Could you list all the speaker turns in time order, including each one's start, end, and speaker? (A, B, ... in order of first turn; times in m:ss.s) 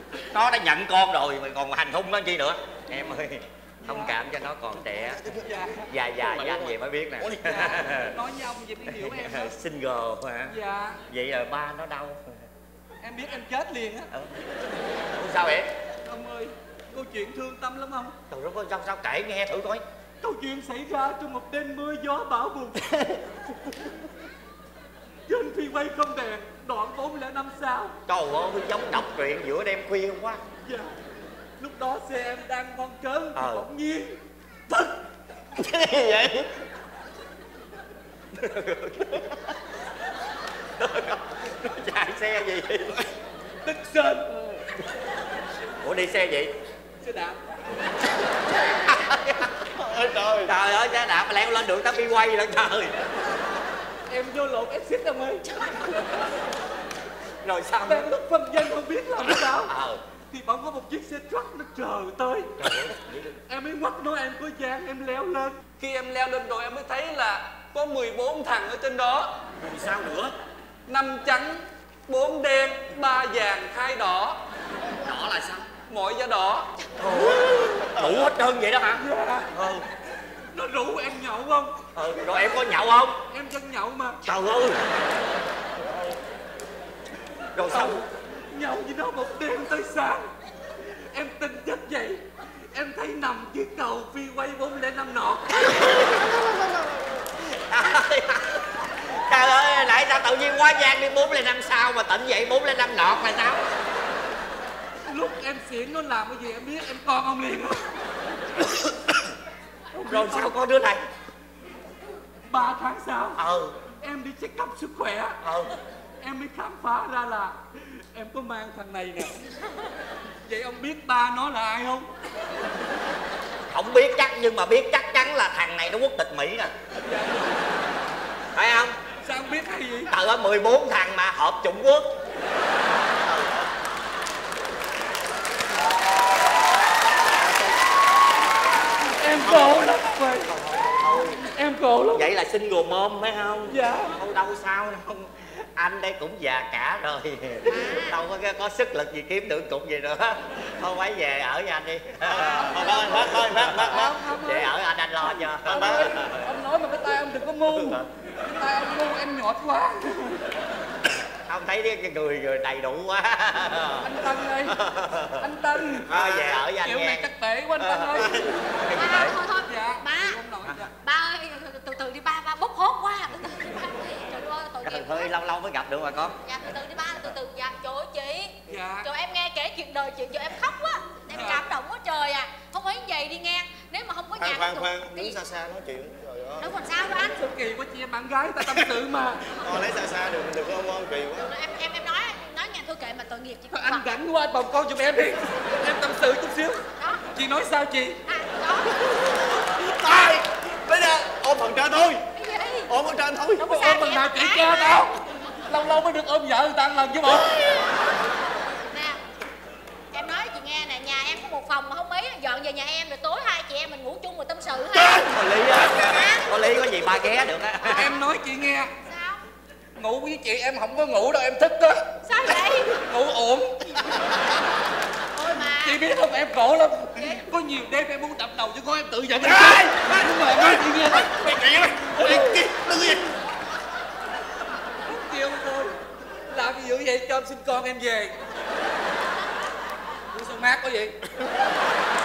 0:00.3-0:05.2 A
0:03.8-0:04.2 B
0:05.0-0:05.4 C
0:05.4-0:05.9 B
0:05.9-0:08.2 A
0:06.2-0:07.8 C
0:07.4-0:09.5 B
0:08.9-0:10.6 A
0:10.5-0:11.0 B
0:11.1-0:12.2 A
0:13.0-0:14.1 B
0:15.1-0:15.7 A
0:16.1-0:18.2 B
0:18.3-0:19.8 A
0:20.2-0:22.9 B
0:25.3-0:28.0 B
0:28.1-0:30.4 A
0:30.6-0:30.9 B
0:31.6-0:34.2 B
0:33.3-0:33.7 A
0:35.6-0:36.5 C
0:38.3-0:39.3 A
0:40.8-0:43.0 A
0:43.6-0:44.3 B
0:45.8-0:46.5 A
0:47.0-0:47.4 B
0:48.9-0:49.5 A
0:49.7-0:50.6 C
0:50.4-0:52.9 A
0:54.1-0:56.3 B
0:57.4-0:58.1 A
0:57.8-0:59.7 B
0:59.7-1:00.0 A
1:00.3-1:02.7 B
1:02.6-1:03.4 A
1:03.4-1:09.3 B
1:09.6-1:10.3 A
1:10.9-1:14.4 B
1:15.0-1:15.7 A
1:15.8-1:16.7 B
1:17.0-1:19.0 A
1:17.1-1:18.3 C
1:18.9-1:19.5 B
1:19.5-1:19.8 A
1:20.5-1:21.8 B
1:22.0-1:23.2 A
1:23.3-1:24.2 B
1:24.2-1:24.9 A
1:25.8-1:26.2 C
1:27.6-1:28.0 A
1:27.7-1:30.3 B
1:31.1-1:35.8 B
1:35.6-1:43.7 A
1:45.1-1:47.9 B
1:48.6-1:48.9 A
1:49.9-1:50.6 B
1:50.1-1:51.0 A
1:52.5-1:53.4 B
1:53.4-1:53.7 A
1:54.0-1:55.4 B
1:55.4-1:55.7 A
1:56.2-1:57.6 B
1:58.1-1:59.3 B
2:00.4-2:02.1 B
2:03.7-2:06.7 A
2:07.0-2:07.8 B
2:08.6-2:09.0 A
2:09.2-2:10.1 B
2:10.1-2:12.1 A
2:13.3-2:13.6 C
2:19.1-2:20.5 B
2:19.4-2:19.8 A
2:20.5-2:21.4 A
2:21.4-2:22.3 B
2:22.1-2:36.5 A
2:23.7-2:24.2 B
2:32.3-2:34.1 C
2:32.5-2:34.7 B
2:35.6-2:36.2 C
2:35.7-2:40.4 B
2:41.3-2:44.1 A
2:44.0-2:44.8 B
2:44.7-2:45.5 A
2:45.4-2:48.5 B
2:46.0-2:49.4 A
2:48.9-2:50.4 D
2:49.5-2:50.9 B
2:51.0-2:55.3 D
2:54.8-2:56.4 A
2:56.4-3:05.4 D
2:58.7-2:59.1 B
3:01.3-3:01.6 B
3:04.4-3:06.7 C
3:06.6-3:07.4 D
3:07.2-3:09.4 B
3:09.5-3:11.5 C
3:11.4-3:14.1 D
3:13.7-3:16.8 B
3:17.0-3:17.2 D
3:17.3-3:18.2 B
3:18.3-3:19.3 D
3:19.7-3:20.4 B
3:20.8-3:22.2 C
3:22.4-3:22.9 D
3:22.9-3:23.7 C
3:23.6-3:25.0 D
3:23.7-3:27.6 B
3:28.9-3:29.2 D
3:30.1-3:35.3 D
3:35.0-3:35.3 B
3:35.3-3:38.1 A
3:35.9-3:36.4 D
3:37.9-3:38.9 B
3:39.0-3:39.4 D
3:40.0-3:43.8 B
3:42.2-3:42.9 D
3:45.4-3:46.0 D
3:45.7-3:52.7 B
3:47.2-3:47.4 D
3:49.4-3:53.2 C
3:55.1-3:55.9 B
3:56.5-3:58.3 B
4:00.3-4:01.2 B